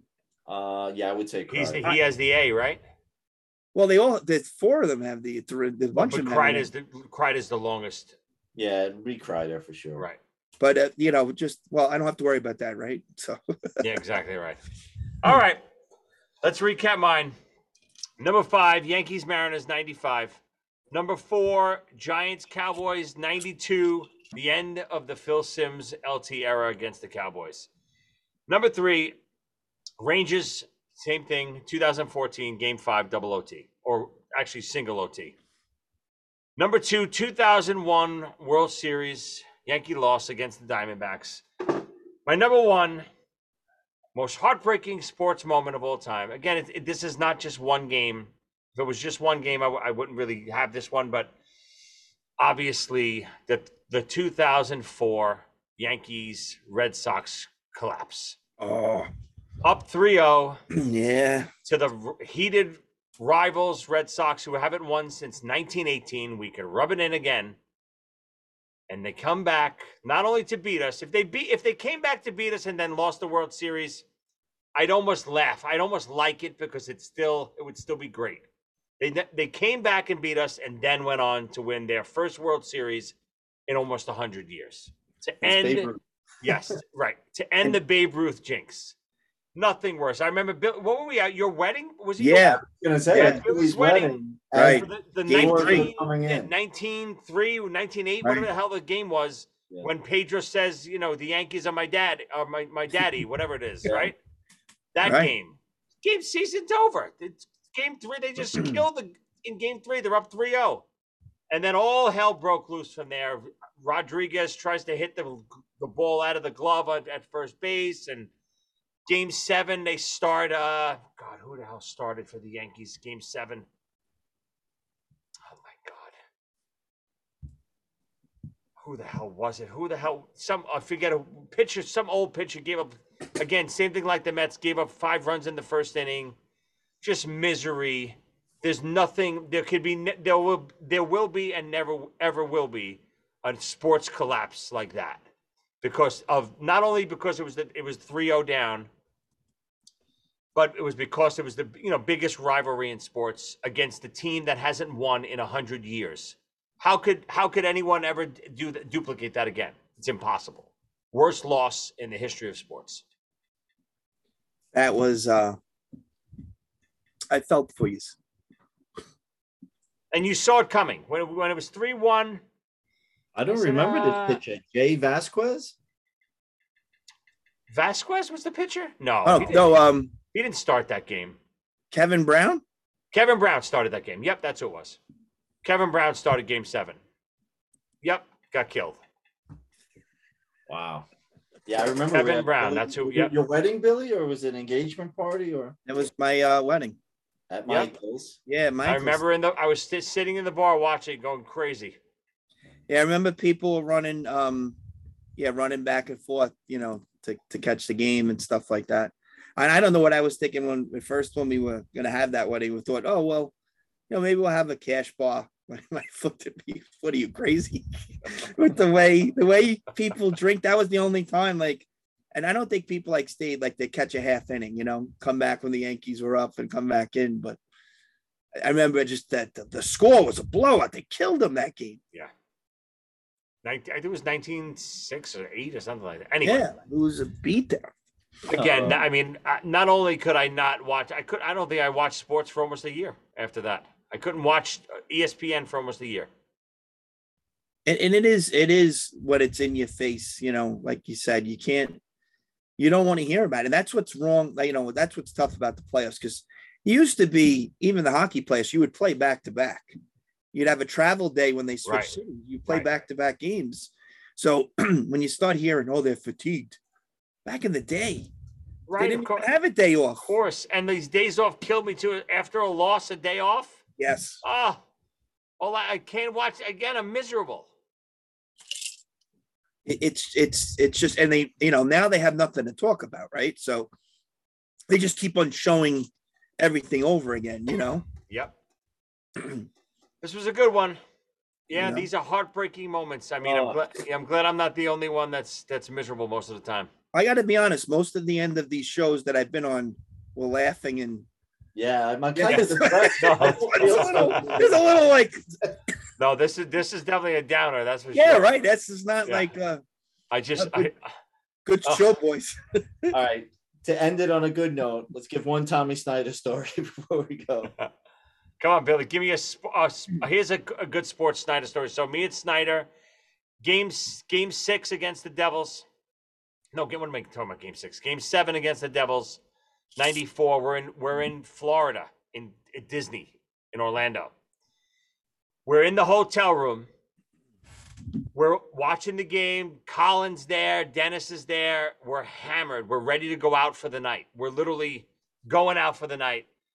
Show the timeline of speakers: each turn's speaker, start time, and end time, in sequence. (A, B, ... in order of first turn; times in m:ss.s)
0:00.5-0:01.8 A
0:01.5-0:02.8 B
0:03.7-0:06.7 C
0:06.0-0:08.2 B
0:08.6-0:10.1 A
0:10.6-0:13.4 C
0:13.8-0:14.6 B
0:15.2-0:15.6 B
0:16.4-0:17.4 B
0:18.2-0:20.4 B
0:20.9-0:27.7 B
0:28.5-0:29.2 B
0:30.0-0:35.4 B
0:36.6-0:41.4 B
0:42.3-0:43.1 B
0:44.2-0:51.3 B
0:52.4-0:58.4 B
0:58.6-0:59.1 C
0:59.6-1:00.6 B
1:00.7-1:01.5 C
1:01.7-1:07.6 B
1:08.9-1:14.0 B
1:14.8-1:18.4 B
1:19.0-1:23.2 B
1:23.7-1:25.9 B
1:25.4-1:26.0 A
1:26.4-1:29.0 B
1:29.6-1:32.6 B
1:32.2-1:32.6 C
1:32.6-1:36.5 A
1:33.1-1:33.4 C
1:33.2-1:44.2 B
1:34.5-1:35.9 C
1:38.2-1:38.5 C
1:43.8-1:44.1 A
1:44.9-1:50.8 B
1:45.0-1:45.3 C
1:48.5-1:48.8 C
1:51.5-1:58.3 B
1:59.1-2:03.7 B
2:05.5-2:06.1 B
2:08.8-2:16.4 B
2:17.0-2:25.2 B
2:25.8-2:28.9 B
2:30.6-2:43.0 B
2:44.7-2:45.6 C
2:47.3-2:48.2 C
2:50.1-2:52.4 B
2:53.4-2:55.8 A
2:53.5-2:54.4 B
2:57.7-3:01.4 B
2:59.2-3:00.1 C
3:01.9-3:02.6 C
3:03.1-3:05.0 B
3:05.6-3:07.0 B
3:08.0-3:09.0 B
3:10.7-3:11.1 A
3:11.7-3:15.8 A
3:12.1-3:13.3 B
3:15.9-3:17.0 C
3:17.5-3:18.4 A
3:18.5-3:19.2 C
3:18.8-3:22.0 B
3:22.9-3:24.8 C
3:25.4-3:33.5 C
3:34.1-3:47.6 C
3:48.6-3:52.0 C
3:53.6-3:56.7 B
3:56.4-3:57.9 C
3:58.5-4:06.3 B
3:58.5-3:59.0 A
4:07.9-4:12.0 C
4:12.8-4:19.9 C
4:20.5-4:26.8 C
4:21.9-4:22.2 B
4:27.4-4:28.3 C
4:28.9-4:29.5 B
4:29.0-4:30.4 C
4:30.2-4:33.8 B
4:34.0-4:34.4 C
4:34.4-4:34.8 B
4:35.6-4:37.7 B
4:39.8-4:43.9 C
4:44.9-4:48.0 C
4:48.3-4:48.5 B
4:50.2-4:51.0 B
4:51.7-4:56.9 B
4:51.7-4:52.1 C
4:53.4-4:53.8 A
4:57.1-5:01.3 C
5:01.8-5:04.9 A
5:02.4-5:05.6 C
5:03.1-5:04.6 B
5:06.2-5:08.5 B
5:08.1-5:09.8 C
5:09.3-5:09.5 B
5:10.3-5:11.0 B
5:10.6-5:10.9 C
5:11.6-5:13.1 C
5:13.1-5:17.7 A
5:18.6-5:22.9 B
5:23.6-5:25.8 B
5:26.7-5:29.4 B
5:30.0-5:34.3 B
5:35.7-5:36.9 B
5:38.3-5:46.5 B